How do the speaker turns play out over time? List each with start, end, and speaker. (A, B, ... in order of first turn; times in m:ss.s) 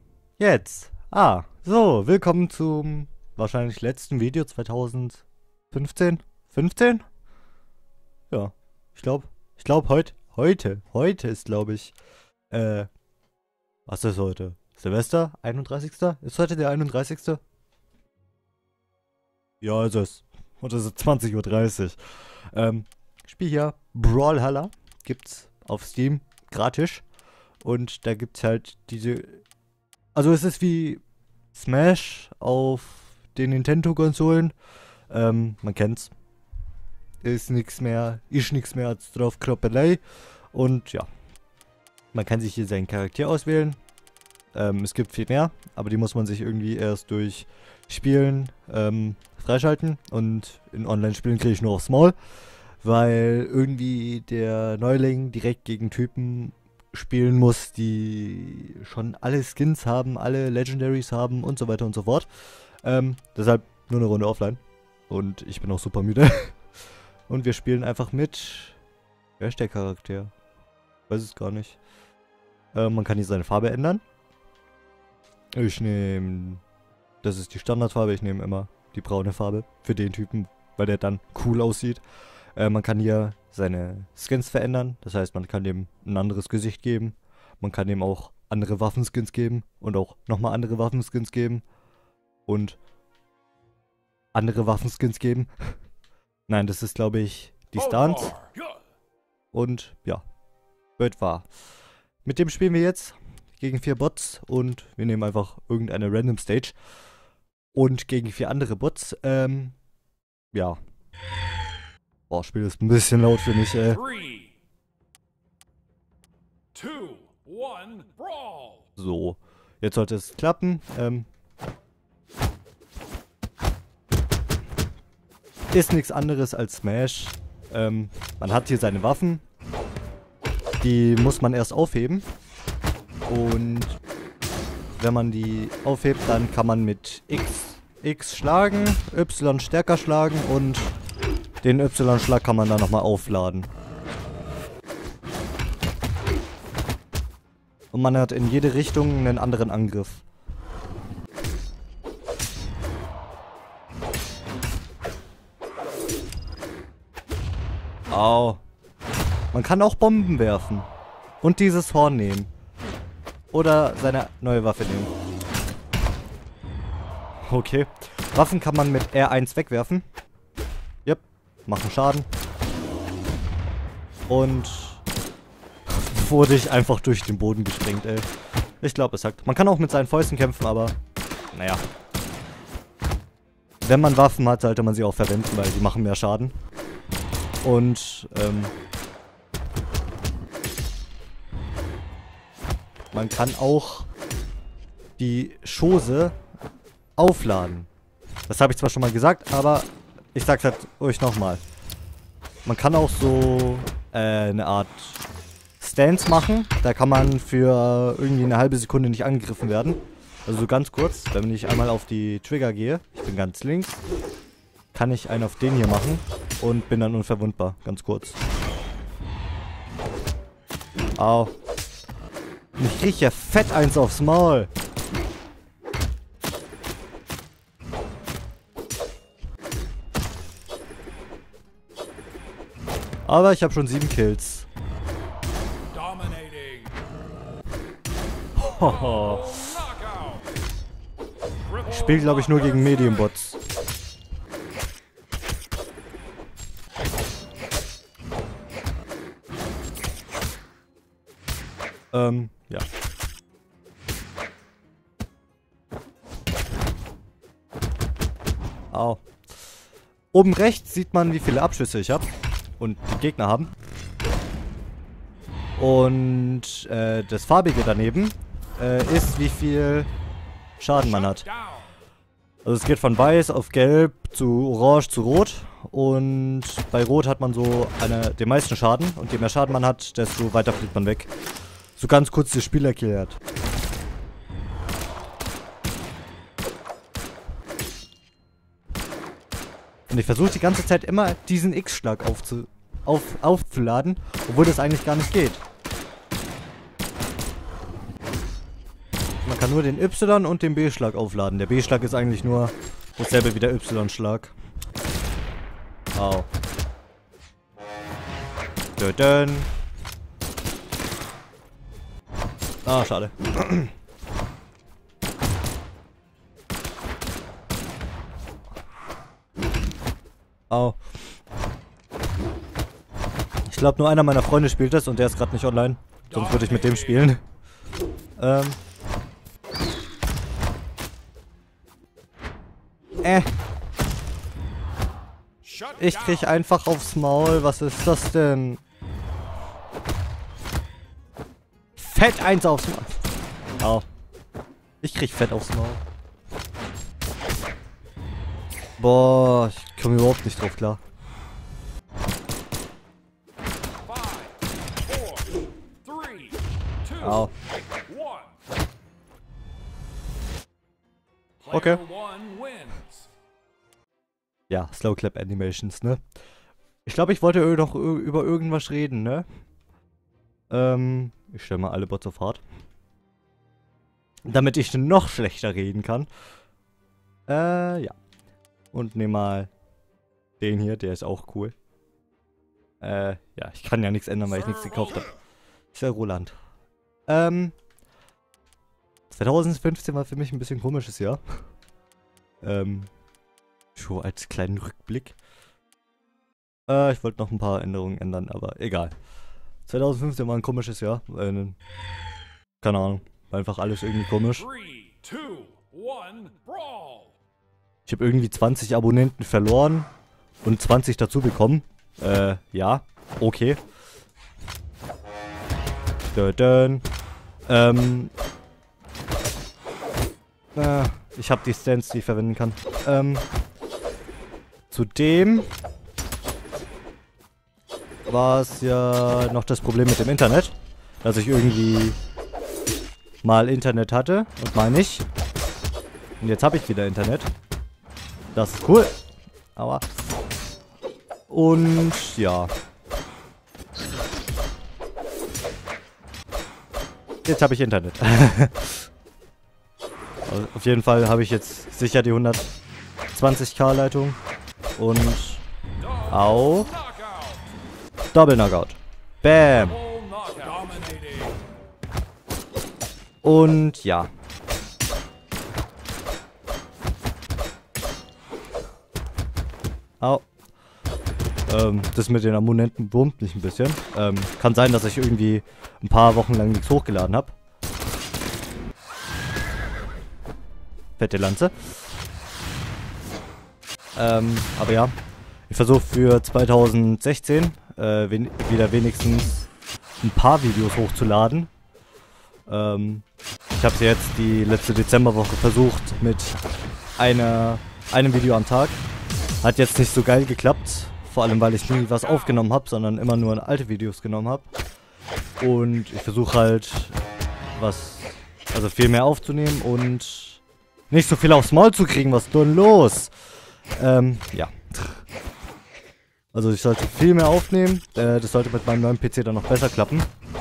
0:00.4-0:07.0 A
0:08.3-0:12.0 A
0:12.5-0:12.9 A
0:13.9-0:17.4 A
0:19.6-0:22.0 A
0:22.5-0:27.0 A
0:27.6-0:29.4 A
0:30.2-0:31.0 A
0:31.5-0:34.5 A
0:35.1-0:36.1 A
0:37.2-0:40.0 A
0:40.5-0:41.1 A
0:42.1-0:43.8 A
0:44.5-0:52.2 A
0:52.8-1:02.3 A
1:02.8-1:06.6 A
1:07.3-1:08.8 A
1:09.4-1:10.3 A
1:11.1-1:11.8 A
1:12.7-1:14.0 A
1:15.5-1:16.6 A
1:17.2-1:22.0 A
1:22.6-1:31.6 A
1:32.5-1:32.8 A
1:34.3-1:35.5 A
1:36.5-1:38.4 A
1:38.0-1:38.7 B
1:39.5-1:40.2 A
1:41.0-1:41.5 A
1:42.2-1:46.7 A
1:47.7-1:49.7 A
1:50.5-1:50.8 A
1:52.3-1:54.0 A
1:53.9-1:54.5 B
1:56.7-1:58.8 B
1:59.0-2:01.2 A
2:05.7-2:09.4 A
2:10.8-2:12.2 A
2:13.3-2:14.0 A
2:15.0-2:20.9 A
2:21.6-2:23.7 A
2:27.9-2:30.2 A
2:38.1-2:38.6 A
2:39.5-2:40.9 A
2:41.4-2:42.5 A
2:43.5-2:45.1 A
2:47.5-2:50.0 A
2:51.1-2:52.3 A
2:54.3-2:55.0 A
2:55.9-2:58.3 A
2:58.8-3:01.0 A
3:01.5-3:01.8 A
3:03.8-3:06.5 A
3:07.6-3:08.7 A
3:13.1-3:14.1 A
3:15.2-3:16.4 A
3:17.2-3:17.9 A
3:18.5-3:21.6 A
3:22.7-3:25.2 A
3:25.8-3:34.0 A
3:34.9-3:38.4 A
3:41.2-3:41.5 A
3:42.8-3:44.7 A
3:53.2-3:54.7 A
3:55.9-3:57.0 B
3:58.6-3:59.6 A
3:58.7-4:00.5 B
4:01.7-4:03.2 B
4:01.8-4:03.6 A
4:12.1-4:12.8 A
4:18.9-4:19.2 A
4:20.3-4:23.7 A
4:25.8-4:30.1 A
4:30.8-4:31.5 A
4:31.2-4:31.8 B
4:32.6-4:41.3 A
4:42.0-4:43.4 A
4:50.1-4:55.6 A
4:59.4-5:04.5 A
5:06.1-5:06.5 A
5:09.0-5:09.7 A
5:12.9-5:13.9 A
5:20.7-5:21.0 A
5:23.7-5:27.4 A
5:26.3-5:27.3 B
5:28.4-5:28.8 A
5:33.2-5:33.5 A
5:35.6-5:36.5 B
5:36.0-5:38.8 A
5:42.0-5:43.2 A
5:43.8-5:44.1 A
5:45.0-5:46.0 A
5:49.0-5:51.0 A
5:54.1-5:57.5 B
5:57.2-5:57.5 A
5:58.1-5:58.6 B
6:01.6-6:03.2 B
6:01.7-6:02.0 A
6:04.7-6:06.2 A
6:07.1-6:09.4 A
6:10.7-6:12.6 A
6:14.4-6:16.3 A
6:17.5-6:18.1 A
6:18.9-6:19.7 A
6:20.6-6:21.8 A
6:23.0-6:25.3 A
6:25.9-6:26.6 A
6:27.3-6:27.7 A
6:29.3-6:31.4 A
6:32.6-6:33.1 A
6:34.0-6:35.4 A
6:36.9-6:39.1 A
6:39.9-6:41.8 A
6:42.8-6:44.6 A
6:44.6-6:47.3 B
6:48.1-6:50.1 A
6:50.6-6:53.8 A
6:56.3-6:57.1 A
6:57.6-6:58.3 A
7:00.8-7:03.4 A
7:04.9-7:05.7 A
7:08.3-7:12.2 A
7:13.4-7:15.2 A
7:16.4-7:17.5 A
7:18.6-7:19.1 A
7:19.8-7:20.1 A
7:21.5-7:22.7 A
7:27.4-7:29.1 A
7:30.5-7:32.7 A
7:33.3-7:34.4 A
7:35.0-7:35.6 A
7:36.0-7:37.7 B
7:36.3-7:36.9 A
7:38.3-7:40.0 A
7:39.9-7:41.6 B
7:43.4-7:44.3 A
7:50.2-7:50.4 A
7:51.7-7:57.6 A
8:01.2-8:01.9 A
8:04.2-8:05.1 A
8:05.7-8:09.7 A
8:10.2-8:11.7 A
8:12.7-8:16.6 A
8:17.2-8:19.0 A
8:19.6-8:24.7 A
8:22.0-8:22.6 B
8:25.6-8:27.2 A
8:27.8-8:33.3 A
8:34.0-8:35.2 A
8:36.5-8:40.3 A